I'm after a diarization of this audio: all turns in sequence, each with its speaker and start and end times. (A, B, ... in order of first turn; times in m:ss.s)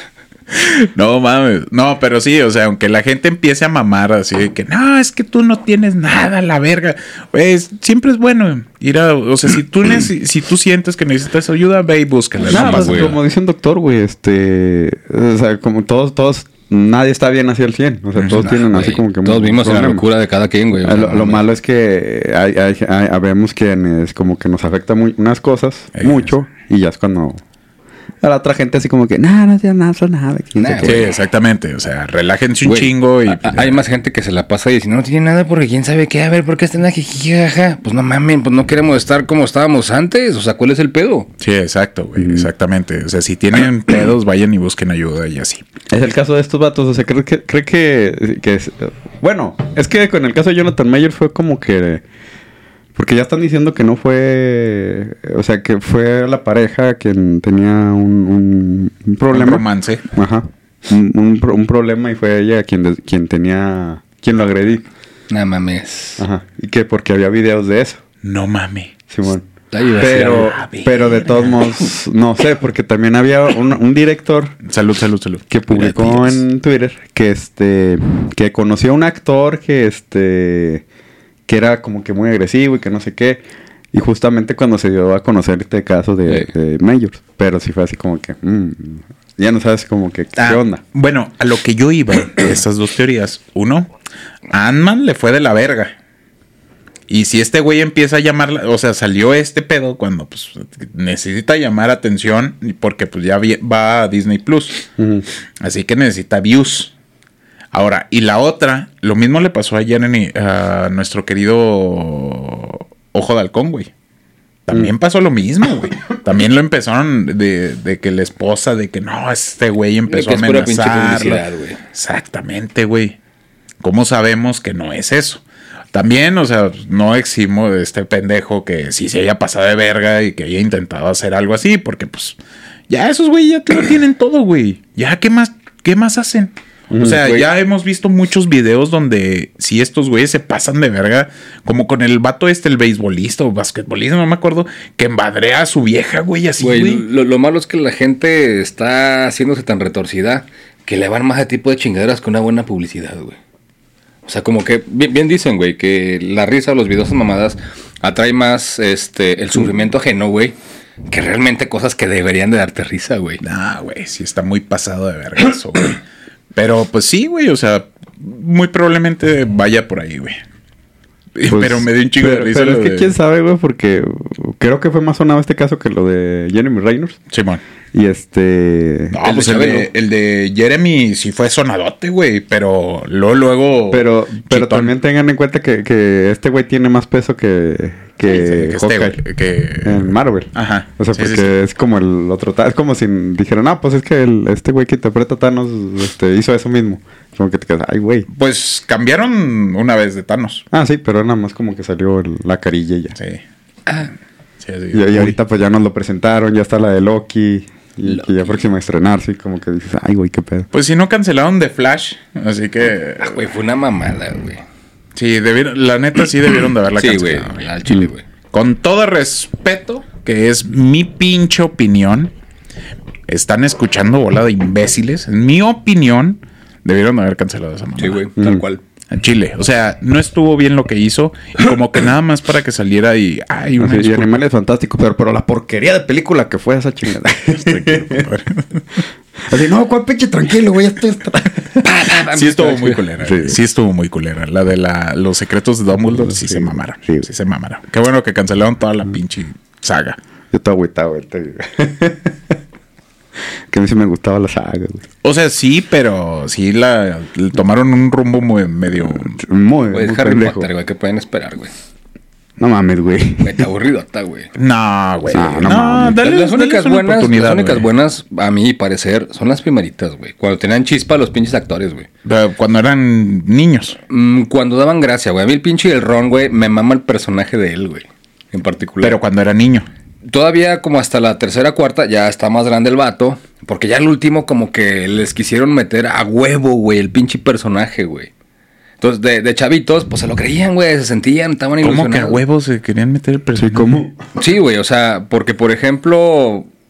0:00.5-0:13.2 A
0:12.4-0:13.2 B
0:12.4-0:20.0 C
0:18.2-0:18.5 A
0:18.4-0:21.5 B
0:20.8-0:27.4 C
0:26.0-0:26.3 A
0:28.2-0:31.1 C
0:30.6-0:31.0 B
0:30.8-0:33.8 A
0:32.6-0:41.3 B
0:41.4-0:45.6 A
0:42.2-0:42.5 C
0:45.9-0:52.0 C
0:53.0-1:04.8 C
0:59.3-1:00.0 A
1:05.3-1:06.2 B
1:06.2-1:08.0 C
1:08.2-1:08.9 A
1:09.1-1:09.5 C
1:09.7-1:10.5 B
1:10.0-1:14.6 C
1:10.0-1:11.7 A
1:14.6-1:16.4 A
1:15.5-1:20.8 C
1:21.5-1:23.4 C
1:23.9-1:30.8 C
1:30.4-1:33.9 A
1:34.5-1:35.9 A
1:37.1-1:44.9 A
1:45.0-1:45.2 C
1:45.6-1:46.9 A
1:47.7-1:53.9 A
1:54.7-2:03.2 A
2:00.1-2:01.8 B
2:03.8-2:05.4 A
2:05.9-2:12.4 A
2:12.9-2:27.0 A
2:16.9-2:17.2 C
2:17.1-2:17.5 B
2:26.6-2:33.4 B
2:34.3-2:40.6 B
2:41.1-2:43.4 B
2:43.4-2:46.0 A
2:46.6-2:50.4 A
2:51.4-2:53.2 A
2:51.5-2:57.2 C
2:57.3-2:57.6 A
2:57.9-2:59.2 C
2:59.1-3:04.9 A
2:59.2-2:59.9 B
3:03.9-3:09.2 C
3:08.3-3:11.5 A
3:09.8-3:18.3 C
3:18.3-3:20.6 A
3:20.7-3:23.2 C
3:23.2-3:23.4 A
3:24.6-3:25.4 A
3:24.9-3:30.7 C
3:30.7-3:33.5 A
3:33.2-3:34.6 B
3:35.2-3:37.7 A
3:37.0-3:38.2 B
3:38.5-3:42.3 A
3:43.3-3:48.2 A
3:48.0-3:48.8 B
3:48.4-3:48.6 C
3:49.1-3:54.4 A
3:53.8-3:58.3 C
3:57.5-3:59.0 A
3:59.5-4:01.8 C
4:01.8-4:03.0 B
4:02.2-4:10.2 A
4:03.2-4:03.6 C
4:06.1-4:07.2 C
4:10.5-4:12.6 C
4:13.7-4:15.0 C
4:15.2-4:19.4 A
4:19.3-4:20.7 C
4:19.9-4:21.7 B
4:22.6-4:23.7 C
4:23.4-4:24.5 B
4:24.6-4:27.9 A
4:25.3-4:26.2 C
4:26.2-4:32.1 B
4:32.2-4:34.0 A
4:34.1-4:39.2 B
4:39.0-4:39.9 A
4:40.3-4:48.3 B
4:49.0-4:52.4 B
4:51.8-4:54.0 A
4:53.6-4:54.2 C
4:54.4-4:56.7 B